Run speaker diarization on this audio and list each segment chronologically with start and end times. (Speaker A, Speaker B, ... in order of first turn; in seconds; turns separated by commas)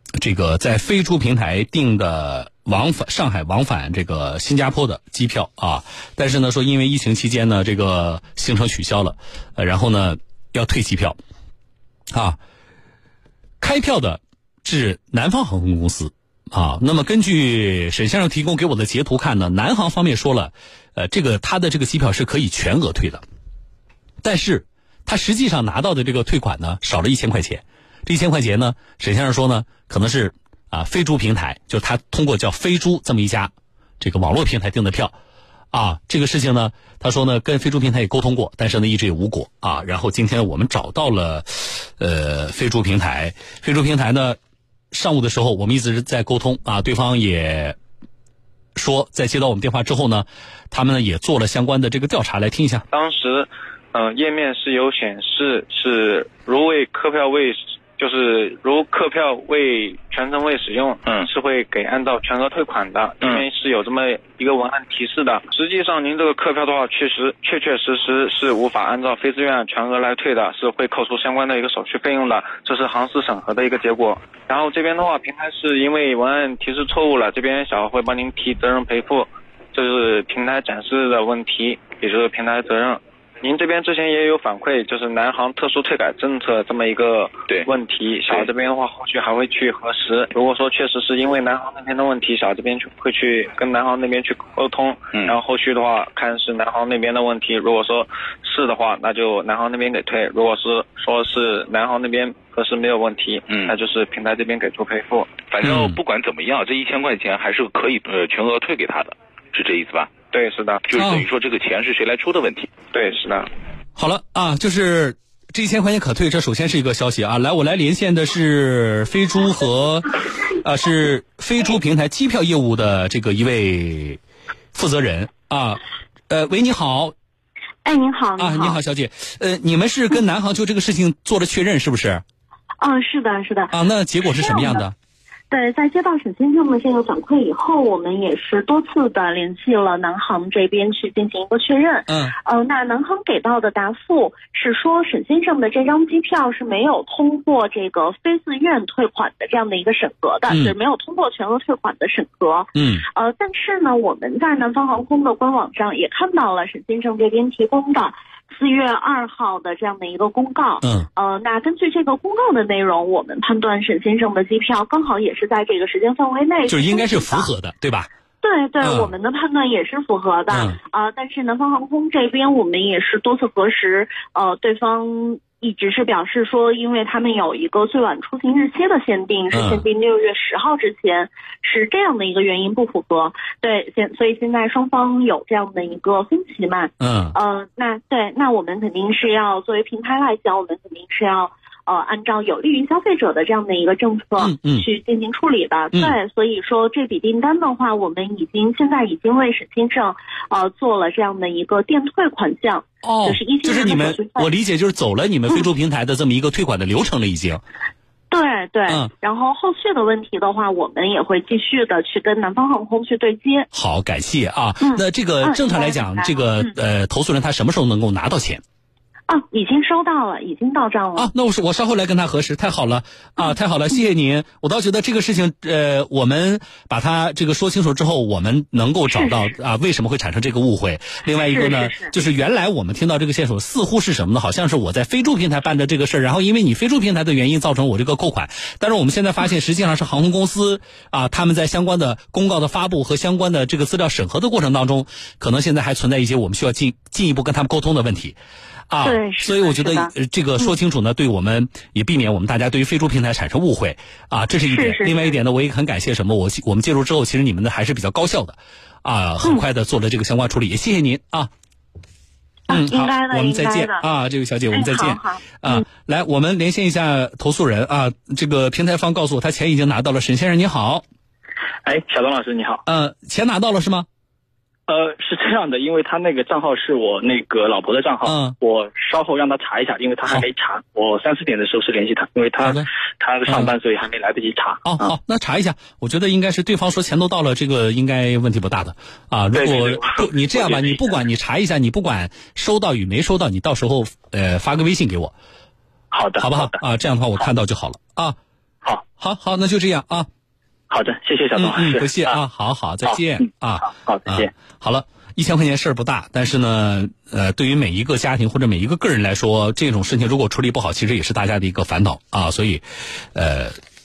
Speaker A: 0.2-11.2, Speaker A: 12.1-12.4, Speaker A: 13.6-23.2, Speaker A: 24.2-35.1, Speaker A: 35.7-44.4, Speaker A: 44.9-47.8, Speaker A: 48.8-52.8, Speaker B: 52.9-105.4, Speaker C: 105.5-110.1, Speaker B: 110.3-110.8, Speaker C: 110.8-112.7, Speaker A: 111.0-111.2, Speaker B: 112.9-113.5, Speaker A: 114.0-124.2, Speaker A: 124.7-127.1, Speaker D: 127.8-128.8, Speaker A: 128.4-132.2, Speaker D: 132.8-134.8, Speaker A: 133.7-134.9, Speaker D: 135.5-167.5, Speaker A: 142.1-142.3, Speaker A: 150.5-150.7, Speaker A: 152.7-153.0, Speaker A: 166.7-168.1, Speaker D: 168.4-204.5, Speaker A: 168.8-169.1, Speaker A: 170.5-170.8, Speaker A: 179.5-179.8, Speaker A: 187.0-187.3, Speaker A: 194.4-194.8, Speaker A: 203.0-207.6, Speaker D: 208.3-213.7, Speaker A: 213.7-218.6, Speaker D: 214.8-216.7, Speaker D: 219.3-221.3, Speaker A: 221.2-248.3, Speaker D: 229.1-229.4, Speaker D: 231.5-232.1, Speaker A: 248.9-261.5, Speaker D: 249.0-250.7, Speaker D: 254.7-255.3, Speaker D: 262.7-264.0, Speaker A: 262.7-271.0, Speaker D: 264.7-265.8, Speaker E: 271.8-272.8, Speaker A: 272.9-274.1, Speaker E: 274.9-285.1, Speaker A: 278.2-278.6, Speaker A: 282.6-282.9, Speaker A: 284.8-295.3, Speaker E: 289.5-290.9, Speaker E: 296.1-296.8, Speaker A: 296.4-298.4, Speaker A: 299.2-300.3, Speaker E: 300.9-302.2, Speaker A: 301.6-313.8, Speaker E: 303.9-304.5